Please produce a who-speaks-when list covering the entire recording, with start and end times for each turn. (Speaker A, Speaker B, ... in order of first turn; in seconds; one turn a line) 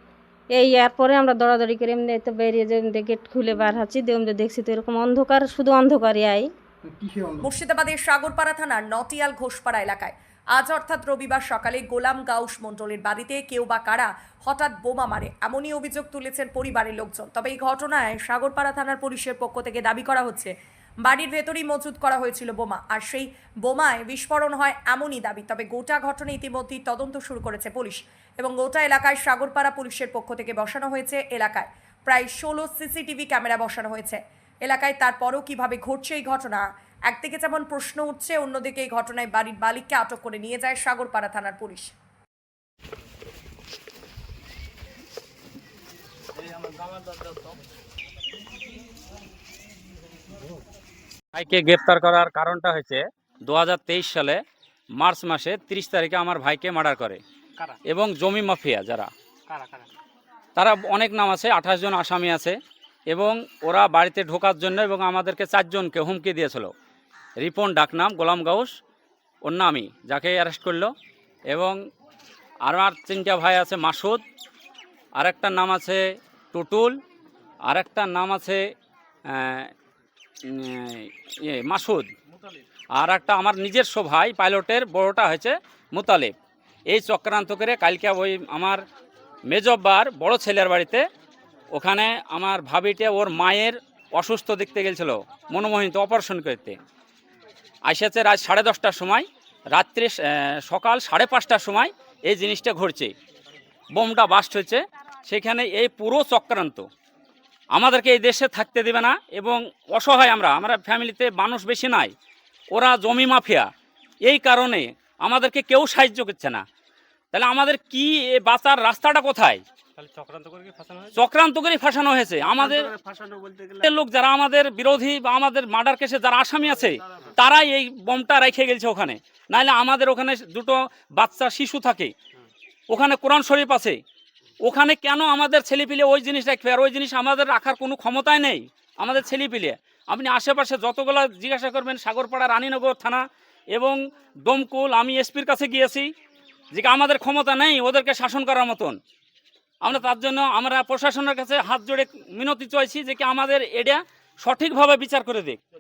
Speaker A: 0.5-6.5
Speaker B: 7.4-20.5
Speaker B: 21.1-41.9
Speaker C: 51.3-54.4
Speaker C: 55.0-57.2
Speaker C: 57.9-59.6
Speaker D: 59.5-59.9
Speaker C: 60.6-62.6
Speaker C: 63.1-66.7
Speaker C: 67.4-68.7
Speaker C: 69.5-70.9
Speaker C: 71.5-71.8
Speaker C: 72.7-74.2
Speaker C: 75.2-76.0
Speaker C: 76.5-77.0
Speaker C: 77.7-78.6
Speaker C: 79.3-79.7
Speaker C: 80.5-82.1
Speaker C: 83.0-86.3
Speaker C: 86.9-88.8
Speaker C: 89.5-91.0
Speaker C: 91.7-96.8
Speaker C: 97.9-100.1
Speaker C: 100.7-103.1
Speaker C: 104.0-106.8
Speaker C: 107.7-112.1
Speaker C: 112.7-113.7
Speaker C: 114.2-116.6
Speaker C: 117.3-119.6
Speaker D: 120.2-121.0
Speaker C: 121.1-123.0
Speaker D: 122.6-123.8
Speaker C: 123.8-132.1
Speaker C: 132.9-134.0
Speaker C: 134.7-143.2
Speaker C: 143.7-146.1
Speaker C: 146.8-149.0
Speaker C: 149.8-155.6